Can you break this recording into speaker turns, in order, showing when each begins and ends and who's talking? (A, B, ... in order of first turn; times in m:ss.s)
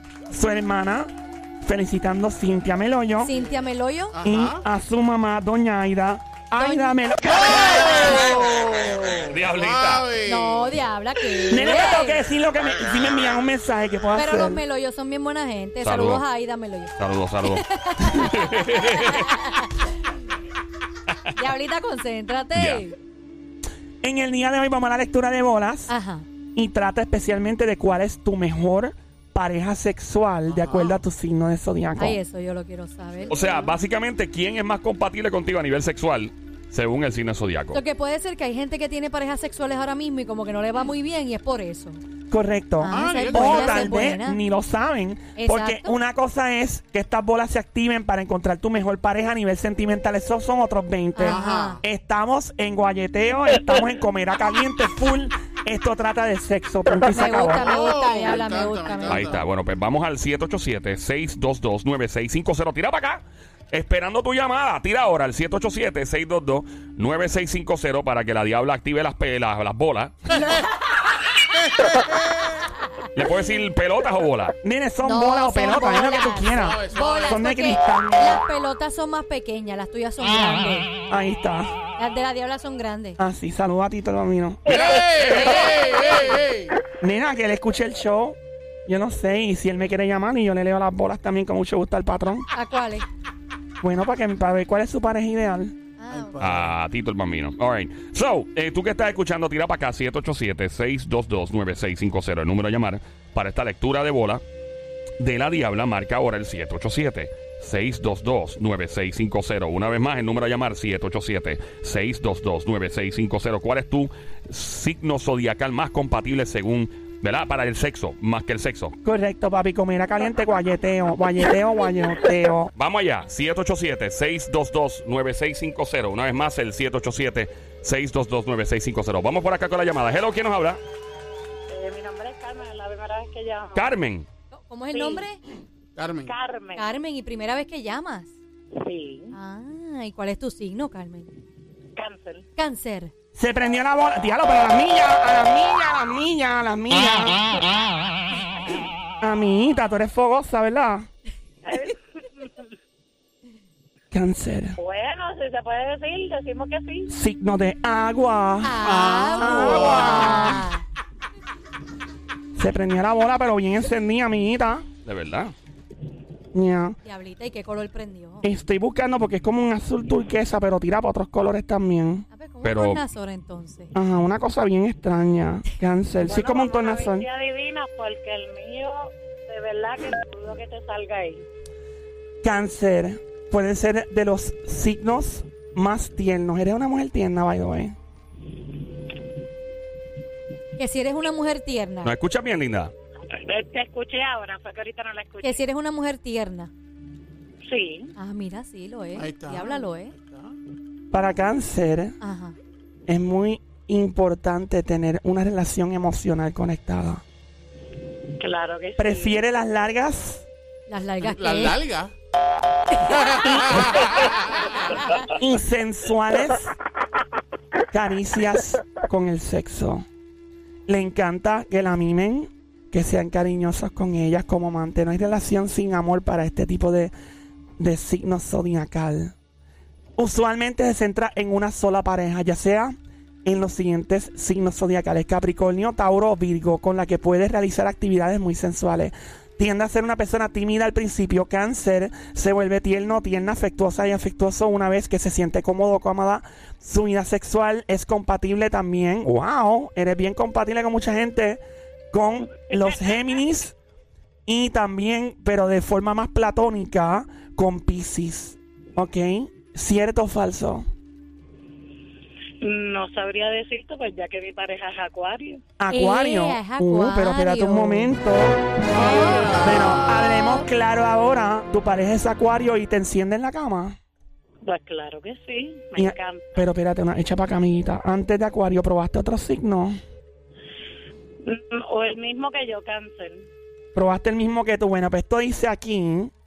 0:00.3-0:01.1 A
0:01.6-0:03.3 A
0:03.2-0:04.2 B
0:04.1-0:04.6 C
0:04.2-0:08.4 A
0:06.6-0:08.4 B
0:07.3-0:10.8 C
0:09.3-0:10.0 D
0:10.3-0:12.2 B
0:11.5-0:14.6 A
0:14.2-0:16.9 B
0:15.8-0:16.2 D
0:17.0-0:19.3 D
0:17.5-0:19.7 B
0:21.4-0:23.0 B
0:22.6-0:22.8 D
0:24.0-0:25.9 A
0:25.9-0:26.3 B
0:26.6-0:32.2 A
0:30.5-0:31.0 C
0:32.0-0:33.8 B
0:33.3-0:37.8 D
0:37.7-0:42.0 B
0:42.3-0:57.6 A
0:42.8-0:44.4 B
0:42.9-0:44.2 C
0:45.4-0:46.0 B
0:51.2-0:51.8 B
0:51.2-0:51.8 C
0:57.1-0:59.3 B
0:57.4-0:59.4 C
0:59.1-1:10.2 D
1:10.3-1:10.6 B
1:11.7-1:12.6 C
1:13.1-1:14.6 D
1:14.6-1:18.4 A
1:15.0-1:20.9 B
1:16.5-1:17.5 C
1:21.1-1:21.7 A
1:22.0-1:23.2 B
1:23.2-1:25.0 A
1:24.7-1:26.7 C
1:25.2-1:26.4 B
1:27.0-1:32.5 A
1:32.5-1:33.0 B
1:33.8-1:35.8 A
1:36.0-1:36.7 B
1:36.4-1:44.4 D
1:45.2-1:59.0 D
1:59.0-2:02.7 A
2:02.8-2:10.8 D
2:11.7-2:13.9 E
2:13.8-2:14.3 D
2:14.5-2:15.4 B
2:14.9-2:15.2 E
2:16.0-2:16.3 C
2:16.3-2:16.9 E
2:16.8-2:18.3 B
2:18.8-2:19.4 E
2:19.3-2:21.3 B
2:22.0-2:22.5 E
2:22.6-2:23.1 B
2:23.4-2:27.5 A
2:29.2-2:31.1 A
2:31.7-2:32.0 E
2:34.1-2:34.8 A
2:34.8-2:37.1 E
2:37.1-2:38.8 A
2:38.6-2:40.8 B
2:38.8-2:40.6 C
2:39.4-2:40.6 A
2:42.6-2:44.9 A
2:45.0-2:45.6 D
2:46.5-2:47.0 A
2:47.0-2:48.5 B
2:48.4-2:52.3 A
2:52.3-2:53.9 B
2:52.6-2:53.0 D
2:53.9-2:57.3 A
2:56.2-3:01.4 E
3:02.4-3:08.0 A
3:10.8-3:12.1 B
3:12.0-3:12.9 D
3:13.3-3:15.6 E
3:15.4-3:16.7 B
3:17.6-3:18.1 E
3:18.2-3:20.1 B
3:19.2-3:20.6 C
3:21.1-3:22.2 A
3:22.2-3:22.6 B
3:23.1-3:27.2 A
3:28.4-3:29.4 E
3:29.0-3:30.5 A
3:30.9-3:31.8 B
3:31.2-3:32.1 C
3:32.9-3:33.8 B
3:33.0-3:34.9 C
3:33.7-3:34.0 A
3:35.3-3:36.7 A
3:37.9-3:40.1 A
3:40.9-3:47.1 A
3:47.8-3:49.4 A
3:50.2-4:13.8 A
4:14.5-4:20.9 A
4:22.6-4:25.6 E
4:25.8-4:28.7 A
4:25.9-4:28.1 B
4:28.9-4:29.8 B
4:28.9-4:30.2 C
4:29.6-4:34.0 A
4:34.6-4:36.6 E
4:36.0-4:40.0 A
4:41.4-4:43.5 E
4:44.0-4:46.3 A